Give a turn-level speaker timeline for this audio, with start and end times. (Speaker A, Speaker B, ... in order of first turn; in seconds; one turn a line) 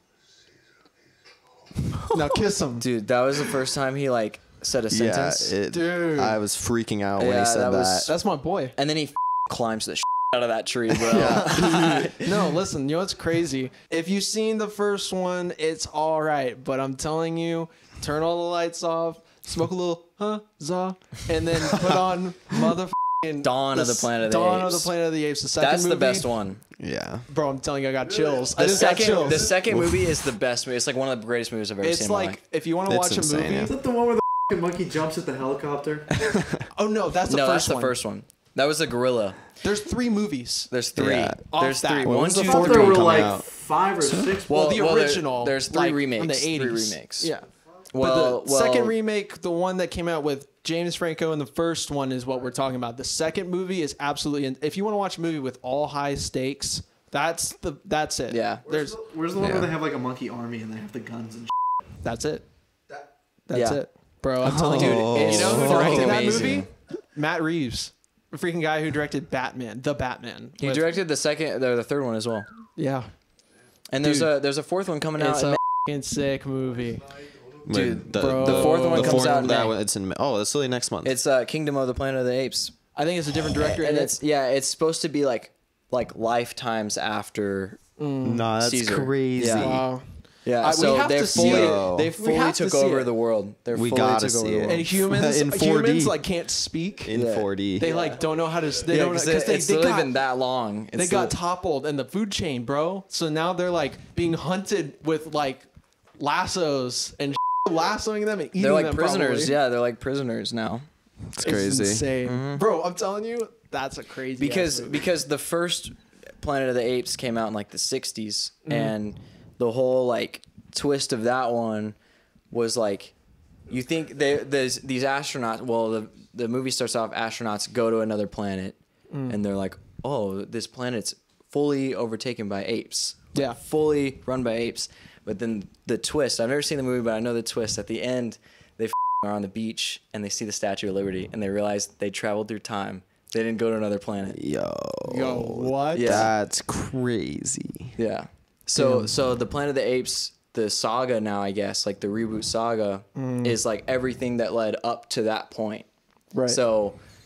Speaker A: 2.1-2.9
Speaker B: 2.8-5.5
Speaker C: 4.9-8.1
Speaker A: 5.7-6.4
Speaker B: 7.2-8.1
Speaker A: 8.1-8.7
Speaker B: 8.8-12.2
Speaker C: 11.0-12.1
Speaker A: 12.2-26.3
Speaker B: 23.4-24.9
Speaker B: 25.6-26.6
Speaker C: 26.8-27.3
Speaker A: 27.3-29.5
Speaker B: 28.5-32.4
Speaker C: 29.6-30.2
Speaker A: 31.8-33.7
Speaker C: 32.9-33.7
Speaker D: 33.6-36.4
Speaker C: 36.3-36.6
Speaker A: 36.7-37.9
Speaker B: 37.3-39.4
Speaker A: 39.6-40.7
Speaker B: 40.7-43.2
Speaker C: 41.0-41.5
Speaker A: 41.5-43.0
Speaker C: 42.0-43.5
Speaker D: 42.6-44.7
Speaker C: 44.0-44.4
Speaker B: 44.5-47.3
Speaker A: 44.5-59.0
Speaker B: 47.9-48.9
Speaker B: 58.3-58.6
Speaker D: 58.6-61.5
Speaker C: 59.4-59.7
Speaker A: 62.0-62.4
Speaker A: 63.5-71.0
Speaker B: 63.5-63.8
Speaker C: 64.4-66.6
Speaker B: 64.6-66.7
Speaker B: 70.6-72.5
Speaker A: 72.8-73.1
Speaker B: 73.9-75.6
Speaker A: 74.0-74.3
Speaker A: 75.2-77.1
Speaker C: 77.6-81.2
Speaker B: 77.7-79.7
Speaker A: 78.1-79.7
Speaker B: 81.0-82.7
Speaker A: 83.0-84.1
Speaker B: 83.5-87.8
Speaker A: 88.0-88.5
Speaker C: 88.2-89.8
Speaker B: 88.6-89.8
Speaker A: 89.6-90.0
Speaker B: 90.4-94.8
Speaker A: 90.6-93.1
Speaker C: 91.3-92.1
Speaker C: 93.7-96.2
Speaker A: 94.6-97.1
Speaker C: 97.0-98.0
Speaker B: 97.1-98.0
Speaker A: 97.8-100.2
Speaker B: 98.9-101.3
Speaker A: 100.9-105.7
Speaker A: 106.2-109.5
Speaker B: 108.6-110.8
Speaker C: 111.3-112.1
Speaker A: 111.4-115.1
Speaker B: 112.2-112.6
Speaker B: 114.4-121.9
Speaker A: 118.7-118.9
Speaker B: 122.5-123.1
Speaker B: 123.7-144.4
Speaker A: 129.1-129.4
Speaker C: 144.3-147.9
Speaker A: 145.1-146.2
Speaker B: 145.9-146.3
Speaker B: 148.0-155.9
Speaker A: 148.8-149.1
Speaker A: 153.2-153.6
Speaker A: 156.3-156.6
Speaker B: 156.5-157.0